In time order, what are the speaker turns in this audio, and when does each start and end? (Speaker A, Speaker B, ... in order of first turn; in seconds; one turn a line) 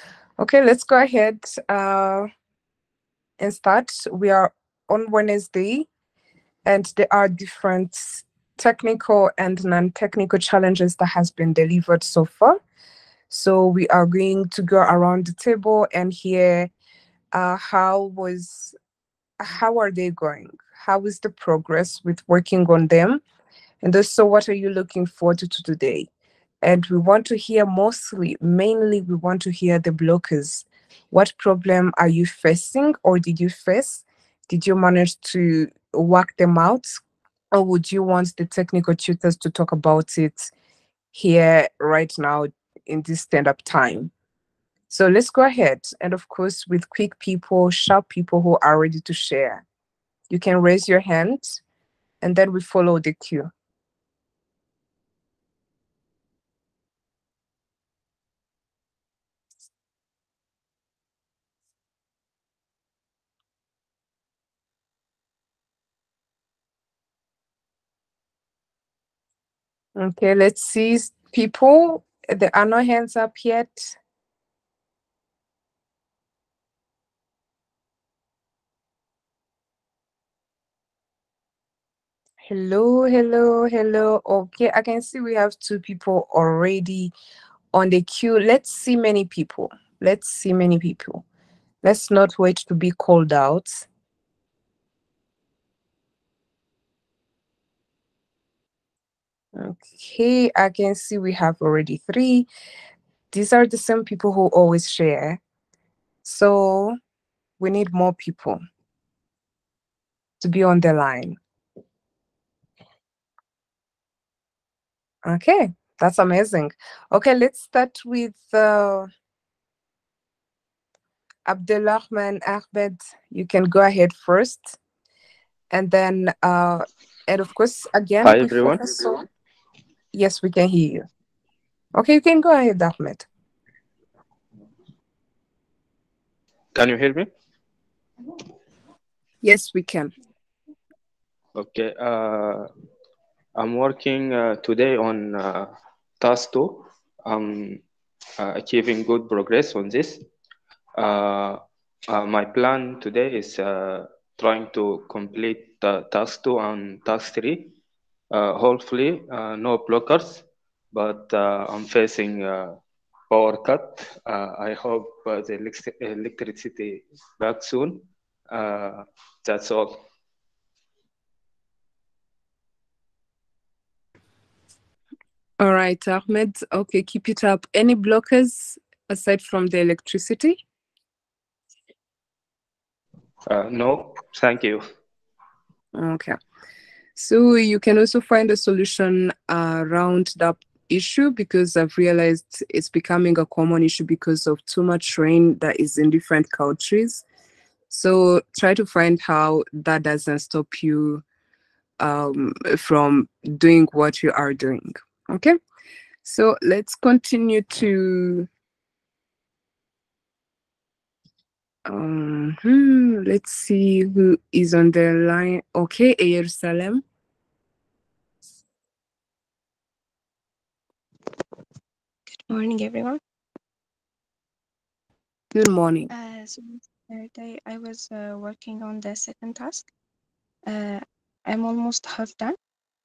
Speaker A: 0.4-2.3
Speaker A: 3.4-5.9
Speaker A: 6.6-12.6
Speaker A: 13.3-16.7
Speaker A: 17.3-18.8
Speaker A: 19.4-23.2
Speaker A: 23.8-26.1
Speaker A: 26.6-40.5
Speaker A: 41.1-44.1
Speaker A: 44.9-49.6
Speaker A: 50.3-51.6
Speaker A: 52.2-53.5
Speaker A: 70.0-74.0
Speaker A: 82.4-87.1
Speaker A: 87.7-91.2
Speaker A: 91.8-93.8
Speaker A: 99.5-102.5
Speaker A: 103.3-105.4
Speaker A: 106.2-107.0
Speaker A: 107.6-108.6
Speaker A: 110.4-111.4
Speaker A: 115.2-119.1
Speaker A: 121.5-124.8
Speaker A: 125.7-129.2
Speaker B: 128.2-129.2
Speaker A: 130.1-131.1
Speaker A: 131.9-133.3
Speaker B: 136.7-137.3
Speaker A: 139.4-140.1
Speaker B: 141.6-142.7
Speaker B: 143.6-147.8
Speaker B: 148.4-150.2
Speaker B: 151.0-157.7
Speaker B: 158.3-162.8
Speaker B: 163.3-170.0
Speaker A: 175.6-180.6
Speaker B: 183.4-184.8
Speaker A: 185.9-186.4
Speaker A: 187.2-197.2
Speaker A: 197.9-201.2
Speaker A: 202.0-205.6
Speaker A: 206.2-208.5
Speaker A: 211.8-217.0
Speaker C: 222.3-223.2
Speaker A: 225.5-226.1
Speaker C: 226.1-229.9
Speaker C: 230.7-232.6